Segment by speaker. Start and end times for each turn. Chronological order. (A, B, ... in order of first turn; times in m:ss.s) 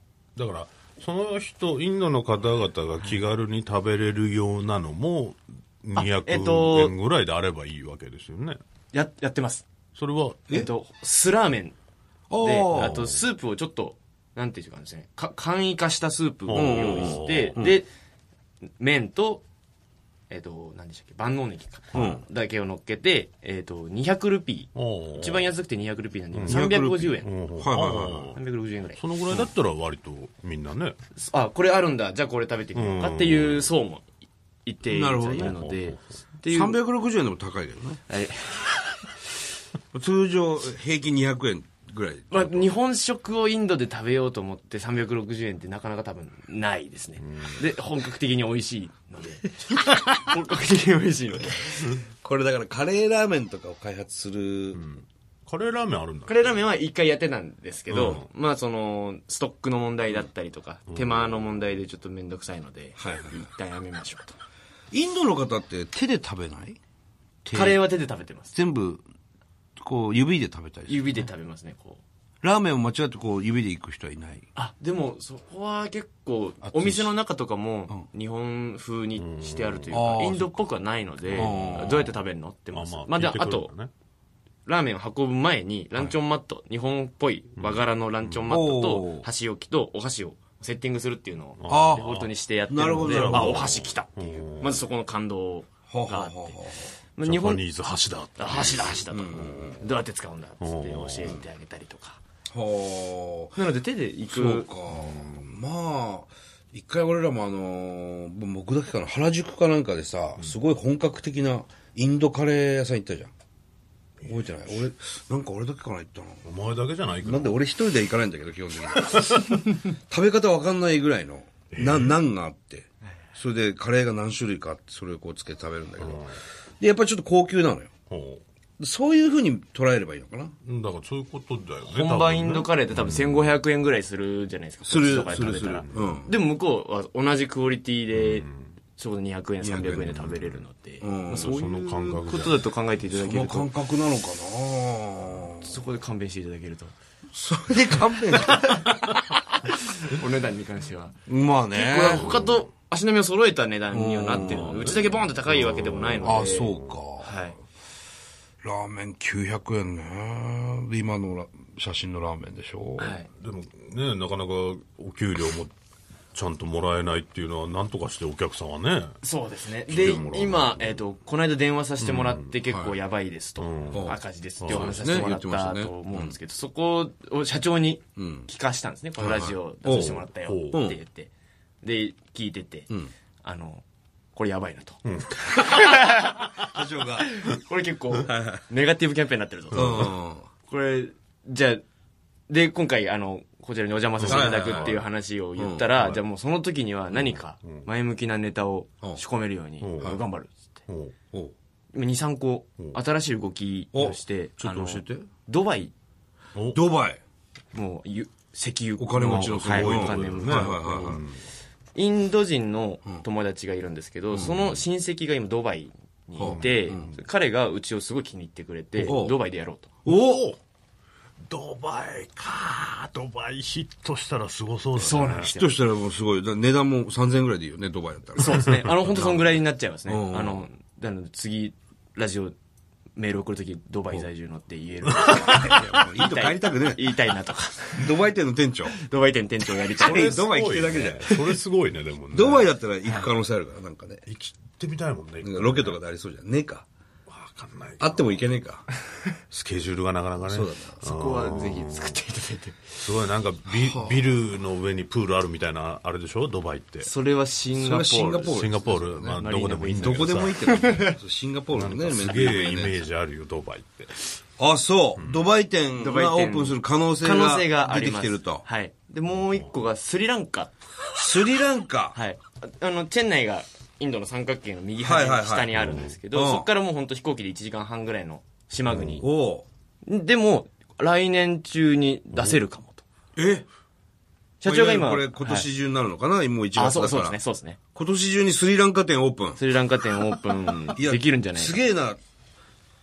0:00.4-0:08.6 A
0:06.0-0:07.0 B
0:08.9-0:09.7 B
0:10.0-0:10.5 A
0:10.5-0:11.8 B
0:12.3-0:13.0 C
0:12.4-0:17.9 B
0:12.7-0:13.2 A
0:16.5-0:17.6 A
0:16.5-0:17.8 C
0:18.8-0:19.4 B
0:20.3-0:27.3 B
0:21.9-0:22.2 C
0:24.8-0:25.5 A
0:26.3-0:26.7 A
0:26.5-0:28.3 C
0:27.2-0:28.4 A
0:28.3-0:29.0 B
0:28.9-0:31.0 A
0:31.2-0:34.0 B
0:32.8-0:33.7 A
0:34.7-0:36.8 B
0:34.9-0:35.6 C
0:35.4-0:36.0 A
0:36.5-0:38.0 C
0:38.1-0:38.8 B
0:39.9-0:42.7 C
0:42.3-0:52.0 B
0:52.2-0:54.8 C
0:54.7-0:56.6 A
0:56.3-1:04.4 B
0:57.9-0:58.3 A
1:00.9-1:01.5 A
1:03.0-1:03.4 C
1:04.9-1:06.8 C
1:07.4-1:07.9 C
1:07.5-1:08.5 B
1:08.5-1:09.0 C
1:09.8-1:11.2 C
1:10.9-1:12.0 B
1:12.4-1:14.5 C
1:14.6-1:23.7 B
1:16.7-1:17.1 C
1:19.2-1:20.1 A
1:19.9-1:20.6 C
1:21.2-1:22.2 A
1:21.3-1:22.1 C
1:22.7-1:23.9 A
1:24.7-1:36.6 B
1:27.6-1:28.5 A
1:28.5-1:29.3 C
1:31.6-1:32.3 A
1:31.7-1:32.2 C
1:32.7-1:33.8 C
1:33.0-1:34.9 A
1:35.9-1:37.0 C
1:37.2-1:37.6 B
1:37.2-1:39.7 A
1:38.4-1:42.2 B
1:39.1-1:39.8 C
1:40.6-1:41.4 A
1:42.5-1:43.6 C
1:43.6-1:44.7 B
1:44.3-1:53.3 C
1:44.9-1:45.5 A
1:54.2-1:56.5 C
1:56.4-1:57.6 A
1:57.2-2:07.9 C
1:58.9-1:59.5 A
2:01.7-2:02.2 A
2:06.0-2:06.3 A
2:08.1-2:08.4 A
2:08.8-2:10.5 C
2:10.6-2:13.5 A
2:11.8-2:23.7 B
2:14.8-2:16.4 C
2:15.2-2:16.2 A
2:18.1-2:18.7 A
2:19.6-2:20.2 C
2:19.9-2:20.6 A
2:21.0-2:21.6 C
2:21.4-2:22.6 A
2:23.1-2:25.8 C
2:25.6-2:27.0 B
2:27.3-2:28.8 C
2:28.4-2:29.1 B
2:29.6-2:31.2 B
2:31.3-2:32.5 C
2:31.7-2:37.6 B
2:33.9-2:34.8 C
2:34.4-2:37.0 A
2:36.2-2:37.5 C
2:38.6-2:43.2 C
2:43.0-2:43.3 B
2:43.4-2:45.7 A
2:46.3-2:49.2 A
2:49.2-3:01.3 B
2:49.9-2:51.0 A
2:52.0-2:52.6 A
2:52.7-2:52.9 C
2:53.6-2:55.3 A
2:53.9-2:56.4 C
2:58.2-2:58.5 C
2:59.2-3:01.0 C
3:00.4-3:00.8 A
3:01.8-3:02.9 B
3:03.4-3:03.8 B
3:04.4-3:06.7 B
3:05.1-3:05.4 A
3:06.6-3:07.4 C
3:07.2-3:10.2 B
3:08.2-3:08.6 C
3:09.7-3:10.1 A
3:09.7-3:10.5 C
3:10.7-3:11.8 B
3:12.5-3:20.6 B
3:14.2-3:15.0 A
3:14.2-3:15.0 C
3:15.6-3:15.9 C
3:16.0-3:16.2 A
3:17.1-3:17.9 A
3:19.8-3:20.2 A
3:20.9-3:21.2 A
3:21.9-3:25.9 B
3:23.9-3:25.3 C
3:26.7-3:27.2 C
3:27.7-3:31.2 B
3:29.0-3:31.2 C
3:29.2-3:31.4 A
3:32.0-3:39.9 B
3:36.4-3:37.1 C
3:36.4-3:37.2 A
3:39.0-3:39.4 C
3:40.0-3:40.5 C
3:40.1-3:40.6 A
3:41.5-3:45.5 A
3:45.0-3:45.8 B
3:45.4-3:48.7 C
3:48.4-3:52.6 B
3:48.6-3:49.5 A
3:50.1-3:50.7 C
3:53.2-3:58.2 B
3:55.1-3:55.6 A
3:55.4-3:57.1 C
3:58.0-3:59.0 C
3:58.9-4:00.5 B
4:00.0-4:01.3 C
4:00.0-4:02.7 A
4:01.3-4:01.6 B
4:02.3-4:04.2 C
4:03.0-4:03.3 B
4:04.3-4:06.0 A
4:05.4-4:06.8 C
4:07.3-4:08.5 A
4:08.0-4:08.9 C
4:09.5-4:12.2 A
4:10.5-4:11.1 C
4:11.0-4:12.8 B
4:13.0-4:17.1 A
4:13.8-4:14.2 C
4:17.0-4:21.2 B
4:17.8-4:19.3 C
4:18.4-4:20.6 A
4:19.9-4:23.0 C
4:21.7-4:24.3 A
4:24.6-4:28.6 C
4:25.2-4:25.4 A
4:26.0-4:30.7 B
4:31.1-4:32.2 C
4:32.2-4:39.2 B
4:35.0-4:36.7 C
4:35.7-4:36.2 A
4:38.9-4:39.2 A
4:39.0-4:39.7 C
4:40.1-4:43.0 B
4:42.4-4:42.6 A
4:43.4-4:43.6 C
4:44.6-4:45.7 B
4:44.6-4:47.4 C
4:46.8-4:47.8 B
4:47.9-4:49.6 C
4:49.6-4:51.8 B
4:51.0-4:52.2 C